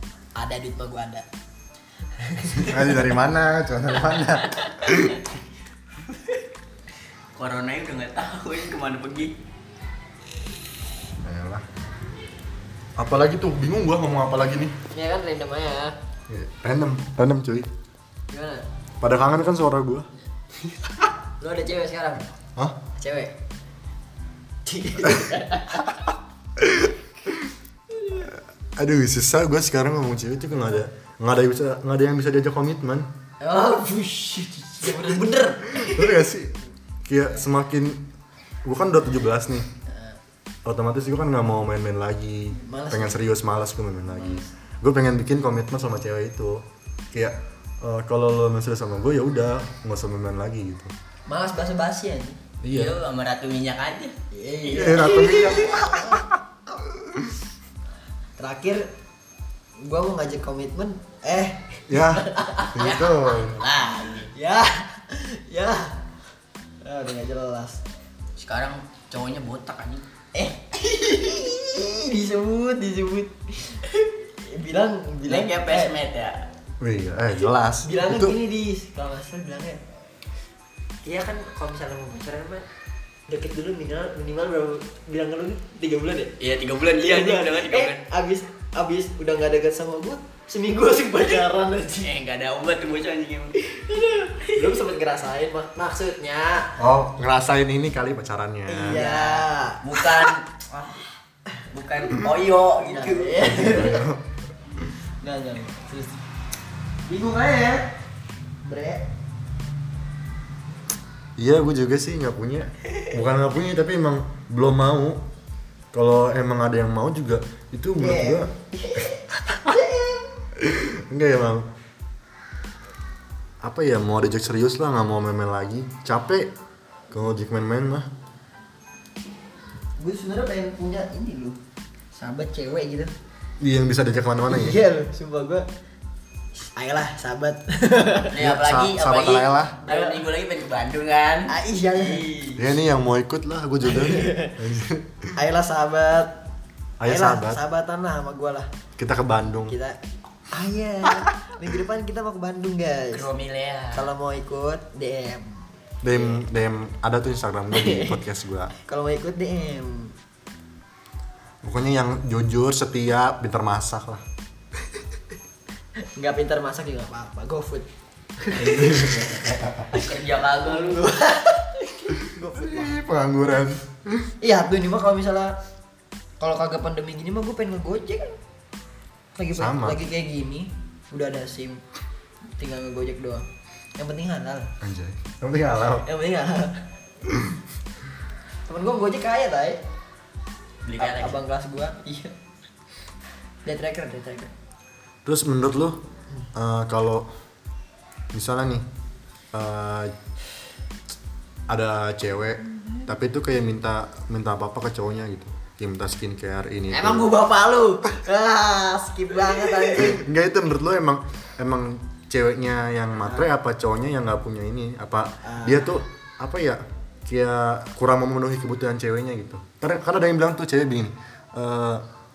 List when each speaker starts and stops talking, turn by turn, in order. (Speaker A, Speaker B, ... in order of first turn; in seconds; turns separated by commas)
Speaker A: 0.3-1.2, Speaker A: 2.2-3.1, Speaker B: 2.5-5.2, Speaker C: 7.3-9.4, Speaker B: 11.2-11.6, Speaker B: 13.0-14.7, Speaker A: 14.9-15.9, Speaker B: 16.3-17.7, Speaker A: 18.3-18.6, Speaker B: 19.0-20.1, Speaker B: 20.6-21.1, Speaker A: 21.4-22.2, Speaker A: 23.0-23.3, Speaker A: 24.6-25.9, Speaker B: 25.1-25.3, Speaker B: 26.6-27.5, Speaker B: 28.1-33.1, Speaker A: 33.4-36.2, Speaker B: 35.7-36.5, Speaker B: 37.1-38.0, Speaker B: 38.6-39.7, Speaker A: 39.9-40.2, Speaker B: 40.6-50.9, Speaker A: 42.5-43.2, Speaker A: 44.1-44.5, Speaker A: 51.3-52.4, Speaker B: 52.6-53.0, Speaker C: 52.7-54.1, Speaker A: 54.3-56.2, Speaker C: 54.7-55.5, Speaker B: 54.7-56.3, Speaker B: 57.0-57.3, Speaker A: 58.4-58.8, Speaker A: 59.8-63.0, Speaker B: 61.9-63.6, Speaker C: 62.7-64.3, Speaker A: 64.3-66.0, Speaker A: 66.8-67.8, Speaker C: 68.4-70.0, Speaker A: 70.3-76.0, Speaker C: 75.3-76.4, Speaker B: 76.8-78.4, Speaker A: 77.8-79.8, Speaker A: 81.0-82.7, Speaker A: 83.3-86.3, Speaker C: 86.4-88.0, Speaker A: 87.0-92.1, Speaker C: 92.0-93.7, Speaker A: 93.7-96.8, Speaker C: 94.3-94.7, Speaker B: 96.8-99.0, Speaker A: 98.7-101.0, Speaker C: 98.9-100.5, Speaker C: 101.7-104.0, Speaker A: 102.8-104.0, Speaker B: 103.4-104.2, Speaker A: 105.2-106.2, Speaker A: 107.0-107.9, Speaker A: 108.6-109.1, Speaker B: 111.4-115.2, Speaker B: 115.9-118.5, Speaker A: 118.0-120.4, Speaker B: 120.6-121.7, Speaker B: 123.6-126.5, Speaker B: 127.1-128.1, Speaker A: 130.0-131.6, Speaker A: 132.1-133.1, Speaker B: 133.6-134.8, Speaker A: 134.5-135.7, Speaker A: 136.6-138.3, Speaker C: 138.3-142.6, Speaker B: 138.3-139.8, Speaker A: 139.8-140.2, Speaker A: 141.5-142.2, Speaker B: 142.6-145.3, Speaker A: 143.8-144.6, Speaker A: 145.3-146.3, Speaker B: 147.0-147.6, Speaker A: 147.0-148.7, Speaker B: 149.0-149.7, Speaker A: 149.7-150.0, Speaker A: 150.5-153.3, Speaker C: 153.1-154.1, Speaker A: 153.9-156.4, Speaker B: 156.0-158.7, Speaker A: 157.7-158.2, Speaker A: 158.8-160.1, Speaker B: 161.6-164.2, Speaker A: 166.1-167.9, Speaker A: 168.4-169.3, Speaker B: 168.5-169.9, Speaker C: 169.9-171.2, Speaker A: 170.6-172.9, Speaker B: 172.4-174.3, Speaker A: 174.4-175.5, Speaker A: 176.4-178.4, Speaker A: 179.3-181.8, Speaker B: 179.5-180.0, Speaker A: 182.6-183.4, Speaker A: 184.0-184.7, Speaker B: 184.8-186.1, Speaker A: 186.0-186.8, Speaker A: 188.7-189.8, Speaker C: 190.8-191.3, Speaker A: 191.0-192.3, Speaker A: 193.6-194.5, Speaker B: 195.2-196.0, Speaker B: 196.5-197.3, Speaker B: 198.3-198.8, Speaker B: 199.5-200.1, Speaker B: 201.7-207.3, Speaker A: 206.9-210.2, Speaker B: 209.8-222.0, Speaker A: 213.2-213.5, Speaker A: 215.4-215.9